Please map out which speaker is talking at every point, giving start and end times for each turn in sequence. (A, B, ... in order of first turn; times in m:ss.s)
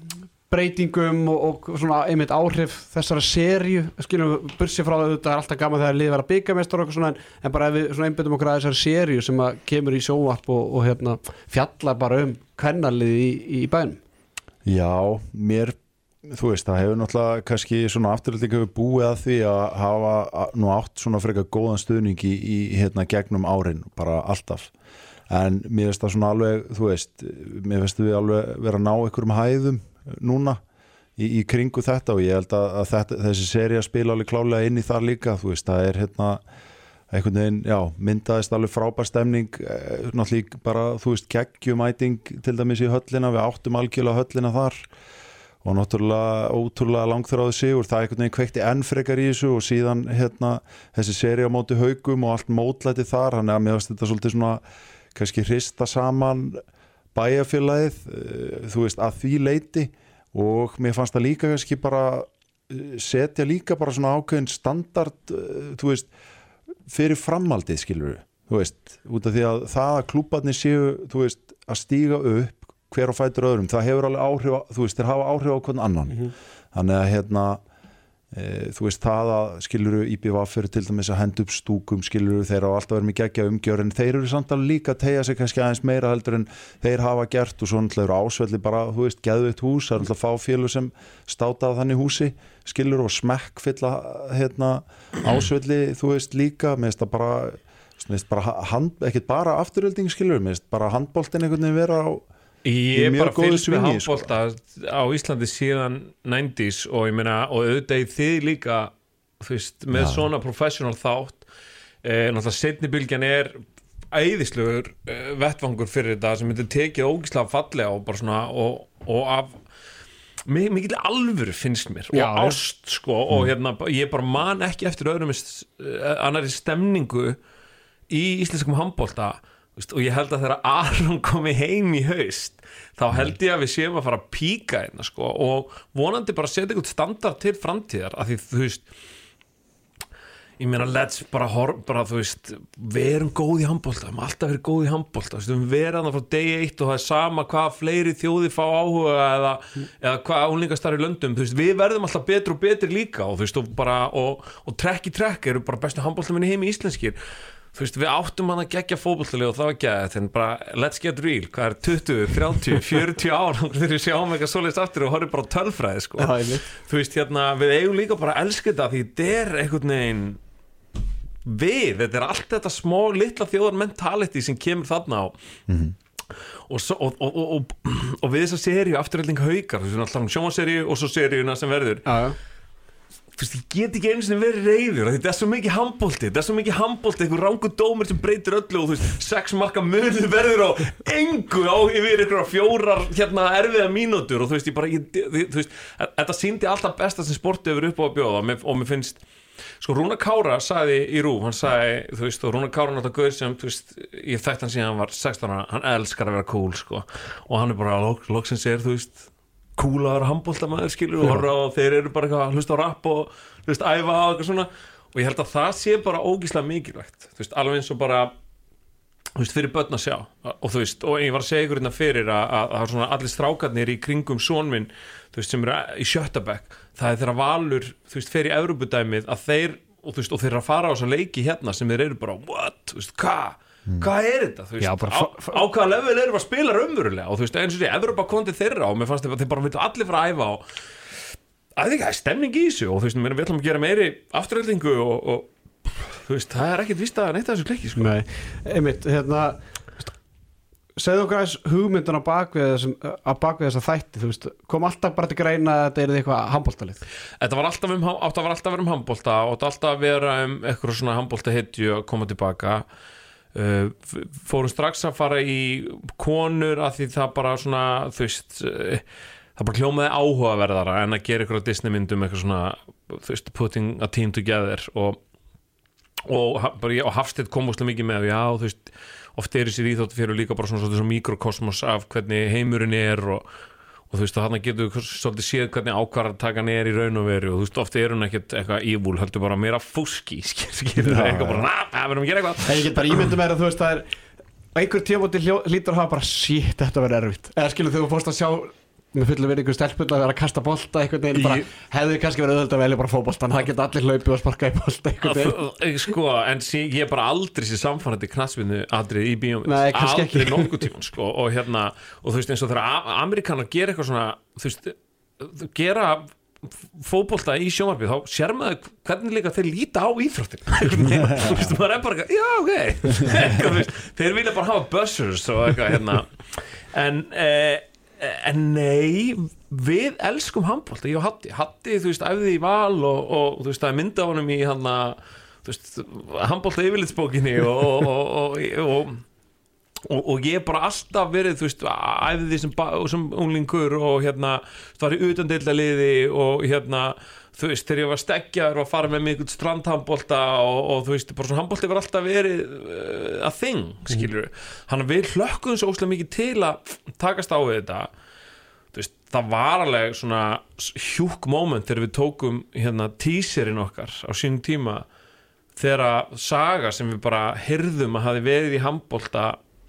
0:00.5-0:14.0 A
0:14.6-0:15.8 B
0:16.3-0:24.7 B
0:25.3-0:30.6 B
0:31.2-0:36.4 B
0:37.1-0:44.9 B
0:45.6-0:54.6 B
0:55.1-0:56.6 B
0:57.1-1:06.1 B
1:06.9-1:17.6 B
1:18.3-1:42.2 B
1:42.6-1:51.4 C
1:42.9-1:44.3 B
1:49.9-1:50.2 B
1:52.0-1:53.6 C
1:54.1-1:59.6 C
2:00.5-2:07.4 C
2:02.1-2:02.6 A
2:08.1-2:18.8 C
2:20.6-2:37.2 C
2:37.7-2:50.4 C
2:46.2-2:46.6 A
2:51.4-2:55.3 C
2:55.7-2:55.9 B
2:56.7-3:02.1 C
3:02.0-3:02.4 A
3:03.4-3:19.2 C
3:19.8-3:38.3 C
3:39.4-4:00.6 C
3:54.8-3:55.6 A
4:01.8-4:08.1 C
4:08.0-4:10.1 A
4:11.0-4:17.0 A
4:17.4-4:22.8 C
4:23.5-4:29.0 C
4:29.6-4:35.2 C
4:36.2-4:43.4 C
4:44.1-4:53.3 C
4:51.0-4:51.6 B
4:52.6-4:54.1 A
4:54.7-5:05.6 A
5:05.2-5:39.2 C
5:09.6-5:10.8 A
5:21.2-5:21.6 B
5:40.1-5:58.1 C
5:58.9-6:05.0 C
6:05.8-6:09.6 C